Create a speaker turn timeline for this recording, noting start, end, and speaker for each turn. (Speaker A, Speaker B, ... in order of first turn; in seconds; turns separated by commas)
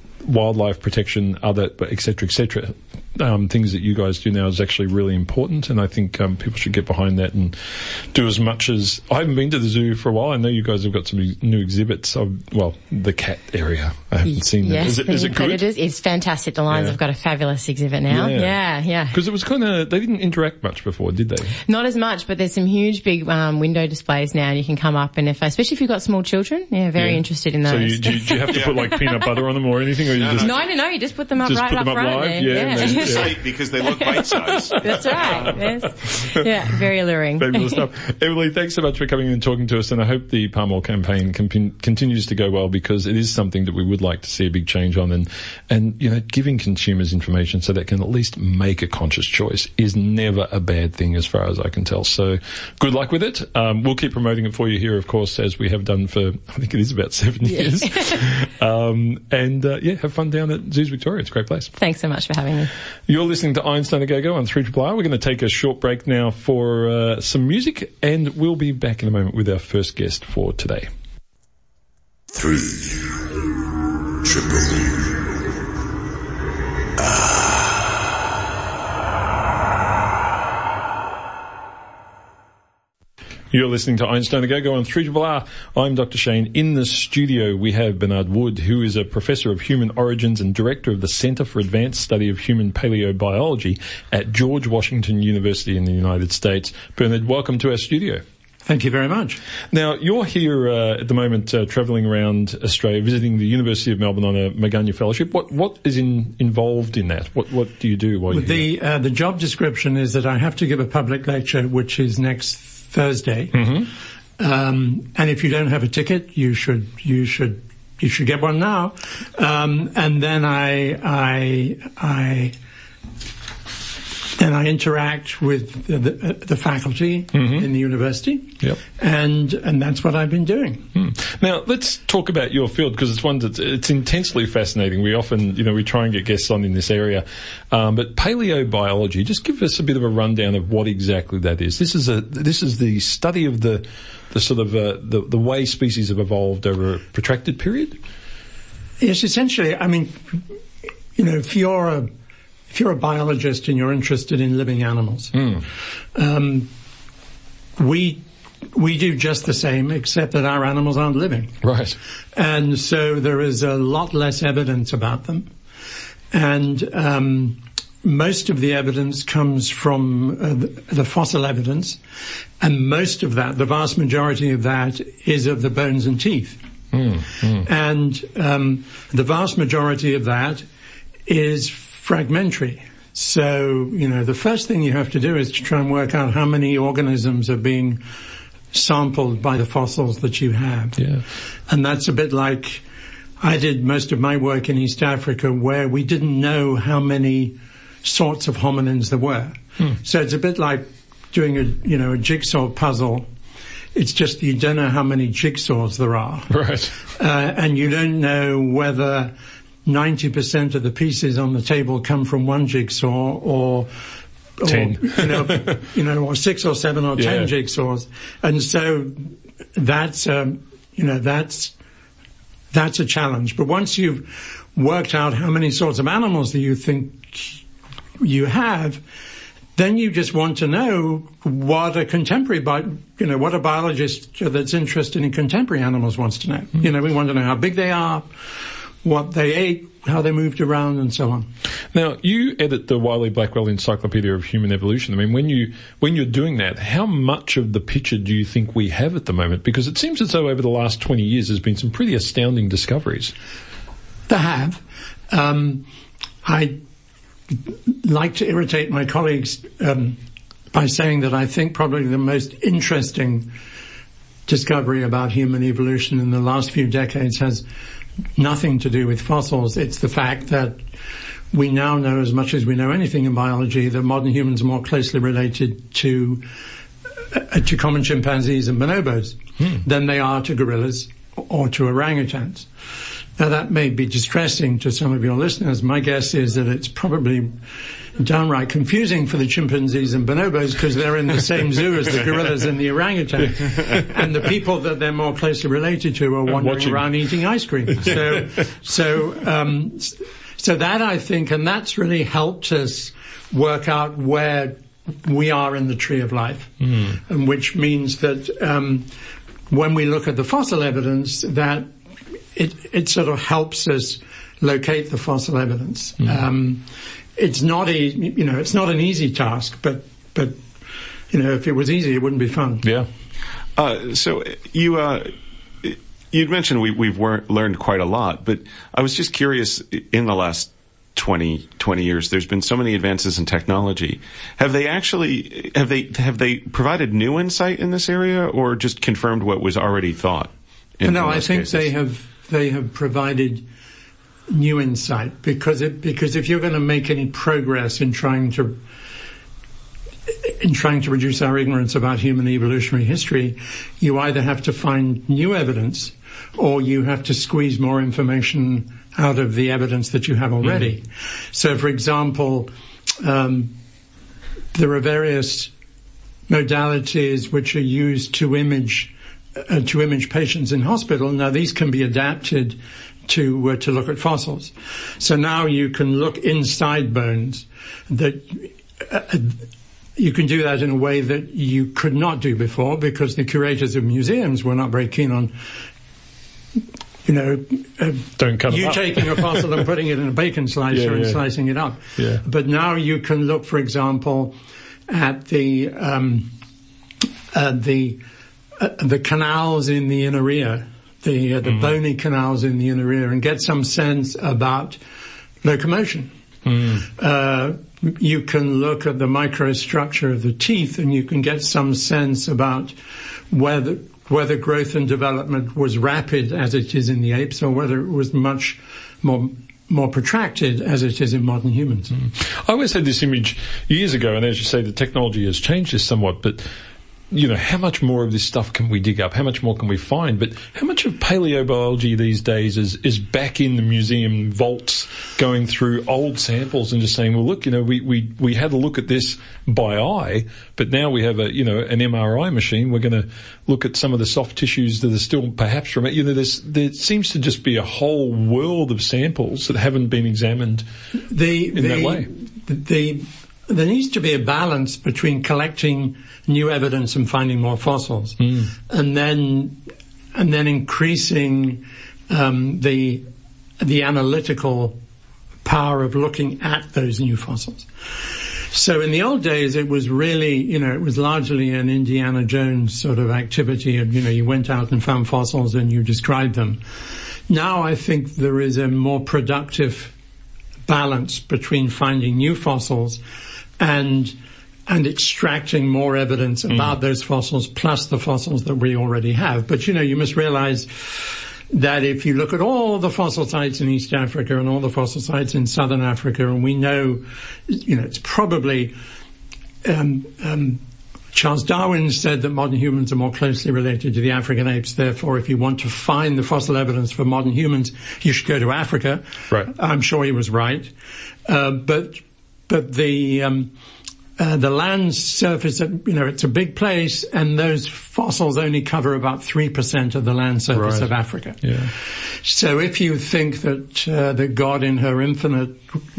Speaker A: 0.2-15.6, Speaker B: 14.3-19.2, Speaker A: 16.7-17.0, Speaker A: 18.1-18.6, Speaker A: 19.1-21.6, Speaker B: 21.7-29.3, Speaker A: 27.0-30.5, Speaker C: 28.5-28.9, Speaker C: 30.1-30.6, Speaker B: 30.4-37.8, Speaker A: 31.4-33.5, Speaker C: 32.8-35.8, Speaker A: 34.7-36.5, Speaker A: 37.4-61.7, Speaker B: 61.8-62.7, Speaker A: 63.1-70.9, Speaker D: 72.3-73.6, Speaker D: 74.2-75.4, Speaker D: 77.0-77.7, Speaker A: 83.5-98.2, Speaker E: 98.7-99.4, Speaker A: 99.7-108.7, Speaker E: 108.3-113.8, Speaker A: 113.5-113.9, Speaker E: 114.4-122.5, Speaker E: 124.4-130.9, Speaker A: 127.3-127.7, Speaker A: 130.9-148.0, Speaker E: 149.0-150.4, Speaker E: 151.2-152.1, Speaker E: 152.7-155.6, Speaker A: 155.3-155.6, Speaker E: 156.2-156.7, Speaker E: 157.8-161.6, Speaker A: 161.6-162.0, Speaker E: 162.3-165.5, Speaker E: 166.3-172.0, Speaker E: 172.6-176.6, Speaker A: 176.9-177.7, Speaker E: 177.6-180.7, Speaker E: 181.3-188.0, Speaker E: 188.7-191.1, Speaker E: 191.7-192.8, Speaker E: 193.4-203.3, Speaker E: 203.9-206.6, Speaker A: 206.5-207.0, Speaker E: 207.1-209.3, Speaker E: 209.8-213.9, Speaker E: 214.6-221.7, Speaker A: 214.7-215.8, Speaker A: 217.2-217.5, Speaker E: 222.7-227.6, Speaker E: 228.2-229.0, Speaker E: 229.8-241.5, Speaker A: 241.9-253.3, Speaker E: 254.3-255.9, Speaker E: 256.4-256.8, Speaker E: 257.7-260.2, Speaker E: 260.7-263.5, Speaker E: 264.5-267.6, Speaker E: 268.4-270.9, Speaker E: 271.5-276.5, Speaker E: 277.3-282.7, Speaker E: 283.4-287.6, Speaker E: 288.2-309.1, Speaker A: 293.4-294.1, Speaker A: 296.5-297.2, Speaker A: 297.9-298.7, Speaker A: 306.9-307.1, Speaker E: 309.7-311.9, Speaker E: 312.6-320.6, Speaker E: 321.3-322.9, Speaker C: 323.8-341.9, Speaker E: 341.0-343.6, Speaker E: 344.5-348.8, Speaker E: 350.4-363.7, Speaker E: 364.7-365.7, Speaker E: 366.5-379.6, Speaker E: 380.2-385.6, Speaker E: 387.2-394.6, Speaker A: 388.4-389.8, Speaker A: 390.9-391.4, Speaker A: 392.2-392.4, Speaker E: 395.1-396.5, Speaker E: 397.5-398.2, Speaker E: 398.8-405.0, Speaker A: 401.6-401.9, Speaker E: 405.6-406.3, Speaker A: 406.7-407.0, Speaker E: 406.9-413.0, Speaker E: 413.5-422.1, Speaker A: 422.2-426.7, Speaker A: 427.3-450.9, Speaker E: 451.3-459.8, Speaker A: 451.7-452.3, Speaker E: 460.3-463.3, Speaker E: 463.8-465.0, Speaker E: 465.6-467.9, Speaker E: 468.7-476.8, Speaker E: 477.5-480.1, Speaker E: 480.9-483.2, Speaker E: 483.8-498.9, Speaker E: 499.8-500.8, Speaker E: 501.3-510.9, Speaker E: 511.5-513.7, Speaker E: 514.4-525.8, Speaker A: 520.7-521.1, Speaker A: 521.6-521.9